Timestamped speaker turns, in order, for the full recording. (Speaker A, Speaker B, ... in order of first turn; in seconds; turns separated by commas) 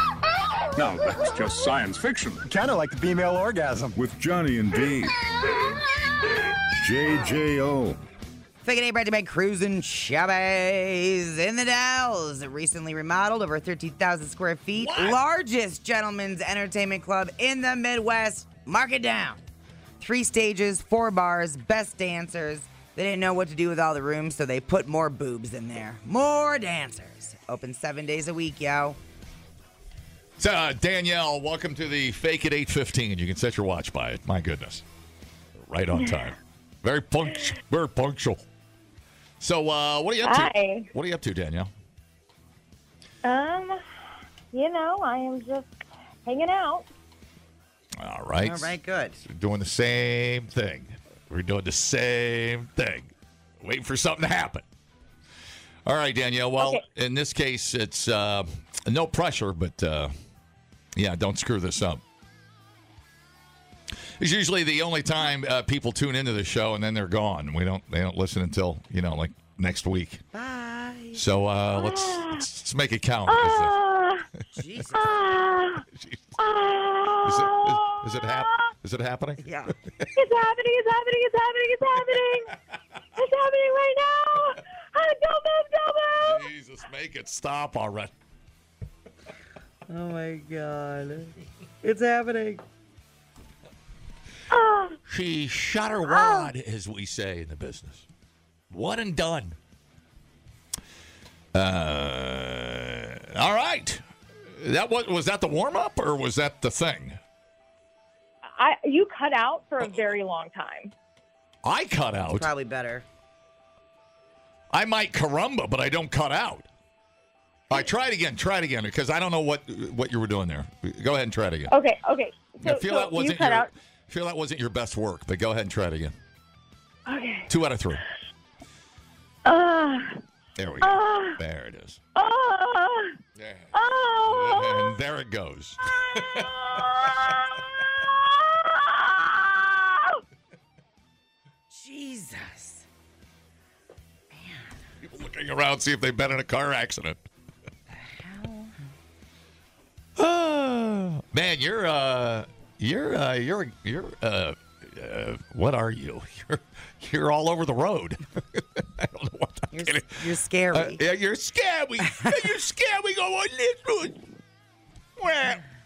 Speaker A: 0.8-4.0, Speaker B: 4.0-5.2, Speaker B: 6.7-8.0, Speaker C: 8.6-19.4, Speaker D: 14.8-15.2, Speaker C: 20.0-29.0, Speaker D: 30.4-34.8, Speaker D: 35.7-38.4, Speaker D: 39.4-41.7, Speaker E: 40.2-40.8, Speaker E: 43.3-43.5, Speaker E: 44.5-45.6, Speaker E: 46.2-46.8, Speaker D: 48.0-54.6, Speaker C: 48.4-49.2, Speaker D: 55.8-60.1, Speaker D: 61.0-62.0, Speaker D: 64.2-70.2, Speaker C: 70.3-71.2, Speaker D: 71.1-73.8, Speaker C: 74.5-75.2, Speaker D: 75.9-76.4, Speaker E: 76.4-77.2, Speaker D: 77.2-79.5, Speaker C: 79.4-79.7, Speaker E: 80.2-80.6, Speaker E: 82.0-82.4, Speaker D: 82.1-82.5, Speaker E: 83.2-84.1, Speaker E: 85.0-86.0, Speaker D: 86.2-88.1, Speaker C: 89.9-92.6, Speaker D: 95.1-98.1, Speaker D: 98.7-99.5, Speaker D: 101.5-107.2, Speaker E: 108.7-109.9, Speaker D: 109.8-110.1, Speaker E: 110.5-110.8, Speaker D: 111.6-112.5, Speaker C: 112.3-113.0, Speaker D: 114.7-116.7, Speaker D: 117.7-121.7, Speaker E: 121.7-123.6, Speaker D: 122.6-126.1, Speaker D: 127.5-128.0, Speaker D: 130.6-132.0, Speaker E: 132.2-132.9, Speaker D: 133.4-133.7, Speaker D: 134.2-137.3, Speaker C: 141.7-142.8, Speaker C: 144.3-144.7, Speaker D: 145.0-147.2, Speaker C: 147.9-148.7, Speaker D: 150.2-160.2, Speaker C: 159.7-161.0, Speaker D: 160.7-164.2, Speaker D: 165.2-165.6